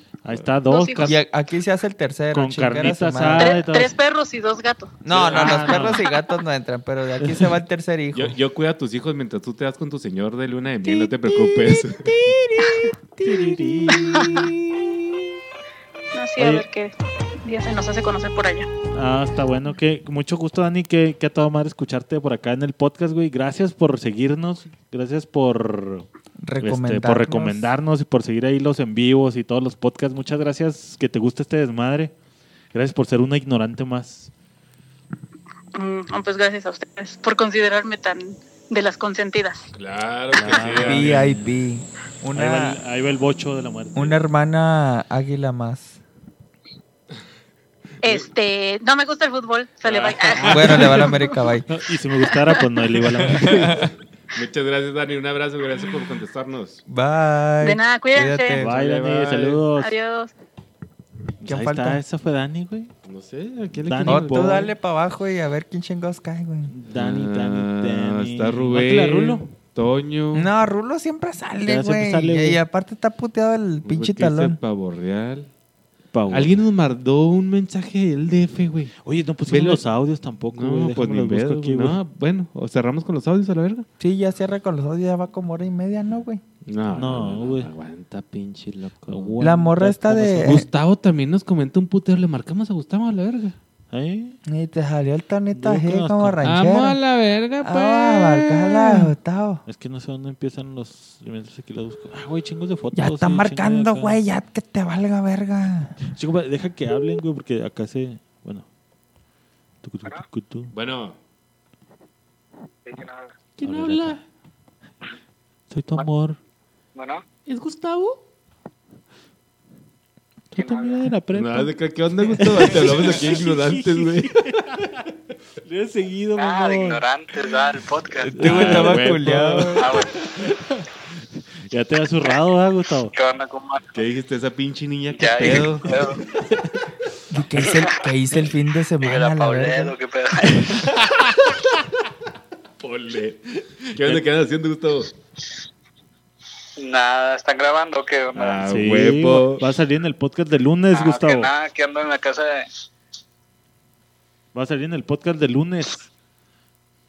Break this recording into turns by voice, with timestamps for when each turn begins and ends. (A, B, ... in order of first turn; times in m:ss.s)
0:00.2-0:01.2 A
0:00.7-0:01.1 B
0:01.0-0:03.6 C
0:02.3-0:04.0 A
0:03.4-0:05.0 B
0:05.0-0:08.4 C
0:05.1-0:05.7 D
0:05.3-0:06.0 A
0:07.2-0:07.5 A
0:08.1-0:12.1 D
0:10.9-0:15.0 C
0:13.2-0:14.3 A
0:13.9-0:14.5 B
0:16.1-0:18.7 B
0:16.4-0:16.7 A
0:18.9-0:26.1 A
0:26.4-0:27.7 C
0:26.6-0:32.1 A
0:32.7-0:34.3 A
0:35.8-0:39.7 B
0:39.7-0:41.2 D
0:40.3-0:41.6 A
0:40.7-0:42.8 C
0:42.3-0:44.2 A
0:44.0-0:46.0 C
0:48.0-0:51.4 B
0:49.8-0:50.9 D
0:50.4-0:51.1 A
0:50.4-0:51.7 C
0:51.7-0:53.9 A
0:52.2-0:52.6 B
0:54.3-0:56.8 D
0:56.9-0:58.6 C
0:57.6-0:58.6 B
0:58.6-0:59.6 D
0:58.6-0:59.9 A
0:59.8-1:00.3 B
1:01.4-1:02.9 A
1:01.5-1:02.0 C
1:03.0-1:04.7 D
1:03.8-1:04.7 A
1:04.1-1:06.7 C
1:06.7-1:09.5 A
1:06.9-1:10.5 D
1:10.3-1:14.6 C
1:11.6-1:12.6 A
1:13.8-1:15.5 D
1:16.1-1:16.6 A
1:16.3-1:18.9 D
1:19.0-1:22.0 A
1:19.5-1:19.8 D
1:20.5-1:23.9 D
1:24.0-1:26.4 C
1:26.7-1:29.4 D
1:26.9-1:27.7 A
1:29.1-1:30.6 A
1:29.4-1:30.6 C
1:30.4-1:33.6 D
1:33.9-1:34.4 A
1:34.5-1:37.0 C
1:35.5-1:36.5 A
1:36.4-1:39.0 D
1:37.6-1:39.6 C
1:39.7-1:44.2 A
1:43.0-1:46.0 C
1:46.1-1:48.7 A
1:49.8-1:50.7 A
1:50.7-1:51.2 D
1:52.8-1:53.3 E
1:53.6-1:54.2 D
1:53.6-1:54.2 A
1:55.7-1:56.4 A
1:57.0-1:57.2 E
1:57.5-1:58.2 D
2:00.5-2:01.8 A
2:00.6-2:01.0 E
2:01.3-2:04.3 D
2:02.3-2:05.0 A
2:05.6-2:07.0 A
2:06.4-2:08.3 E
2:08.3-2:09.9 C
2:08.4-2:09.2 A
2:08.4-2:09.9 D
2:09.8-2:10.1 E
2:11.7-2:13.1 A
2:13.1-2:13.9 E
2:13.9-2:16.0 D
2:15.1-2:16.2 E
2:17.3-2:19.9 C
2:17.7-2:18.0 E
2:19.0-2:20.7 E
2:22.8-2:25.1 D
2:26.8-2:28.6 E
2:28.4-2:29.6 D
2:28.6-2:31.5 A
2:30.9-2:32.7 E
2:34.5-2:36.1 A